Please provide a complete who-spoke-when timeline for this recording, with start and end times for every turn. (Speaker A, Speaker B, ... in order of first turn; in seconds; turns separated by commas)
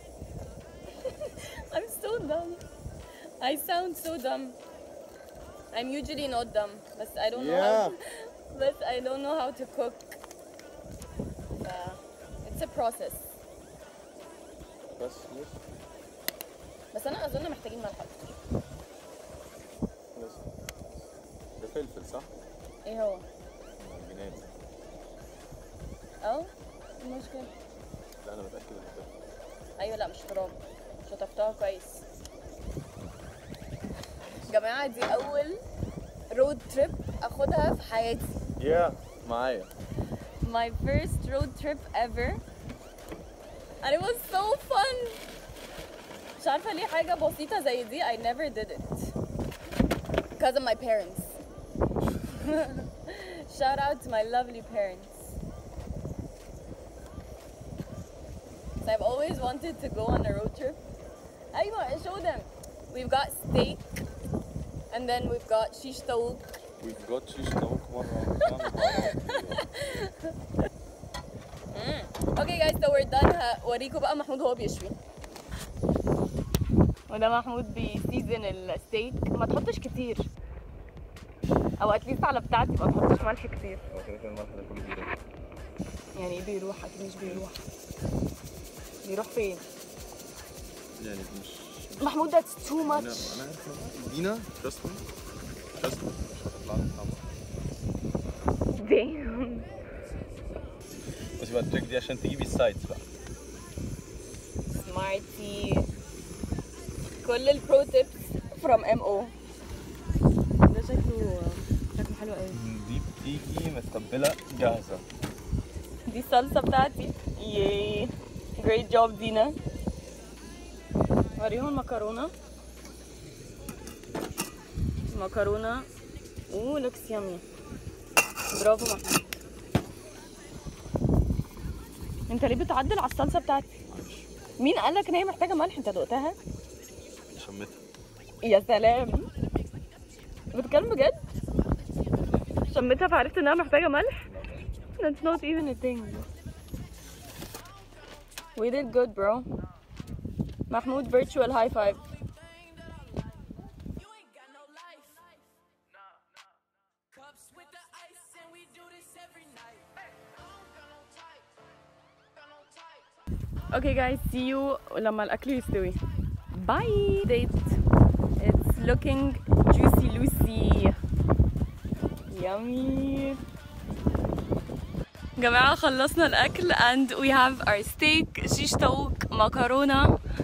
Speaker A: 0.9-2.6, Speaker A: 3.4-4.6, Speaker A: 5.7-10.2, Speaker B: 7.3-8.0, Speaker A: 11.6-13.3, Speaker B: 14.9-15.6, Speaker A: 16.9-18.3, Speaker B: 20.1-20.4, Speaker B: 21.6-22.3, Speaker A: 22.8-23.2, Speaker B: 23.8-24.5, Speaker A: 26.2-27.5, Speaker B: 28.2-29.1, Speaker A: 29.8-32.0, Speaker B: 34.5-35.4, Speaker A: 34.5-35.6, Speaker A: 36.3-38.4, Speaker B: 38.6-39.7, Speaker A: 40.4-42.4, Speaker A: 43.8-45.2, Speaker A: 46.4-49.1, Speaker A: 50.4-51.4, Speaker A: 52.3-55.3, Speaker A: 58.8-60.8, Speaker A: 61.5-63.9, Speaker A: 64.9-66.5, Speaker B: 66.8-69.6, Speaker A: 68.7-70.3, Speaker A: 71.7-75.0, Speaker A: 77.1-80.3, Speaker A: 81.8-83.8, Speaker B: 83.9-85.1, Speaker A: 86.1-87.6, Speaker B: 87.2-87.5, Speaker A: 89.0-89.6, Speaker B: 91.0-95.0, Speaker A: 92.0-93.4, Speaker B: 95.8-97.2, Speaker A: 98.7-99.7, Speaker B: 101.4-103.0, Speaker A: 104.7-105.9, Speaker A: 107.2-109.3, Speaker A: 110.7-112.6, Speaker B: 112.5-115.0, Speaker A: 116.0-119.6, Speaker A: 121.4-122.3, Speaker A: 125.1-125.9, Speaker A: 126.5-127.4, Speaker A: 128.5-129.3, Speaker A: 132.3-133.7, Speaker B: 133.9-134.3, Speaker A: 134.6-136.4, Speaker B: 137.3-137.8, Speaker A: 138.4-139.3, Speaker A: 140.5-141.2, Speaker A: 142.7-144.2, Speaker B: 144.3-144.6, Speaker A: 145.0-146.3, Speaker A: 148.5-149.5, Speaker A: 150.7-152.1, Speaker A: 154.6-155.0, Speaker A: 163.7-166.0, Speaker A: 166.5-167.8, Speaker A: 168.4-171.0, Speaker A: 172.3-173.4, Speaker A: 175.4-180.2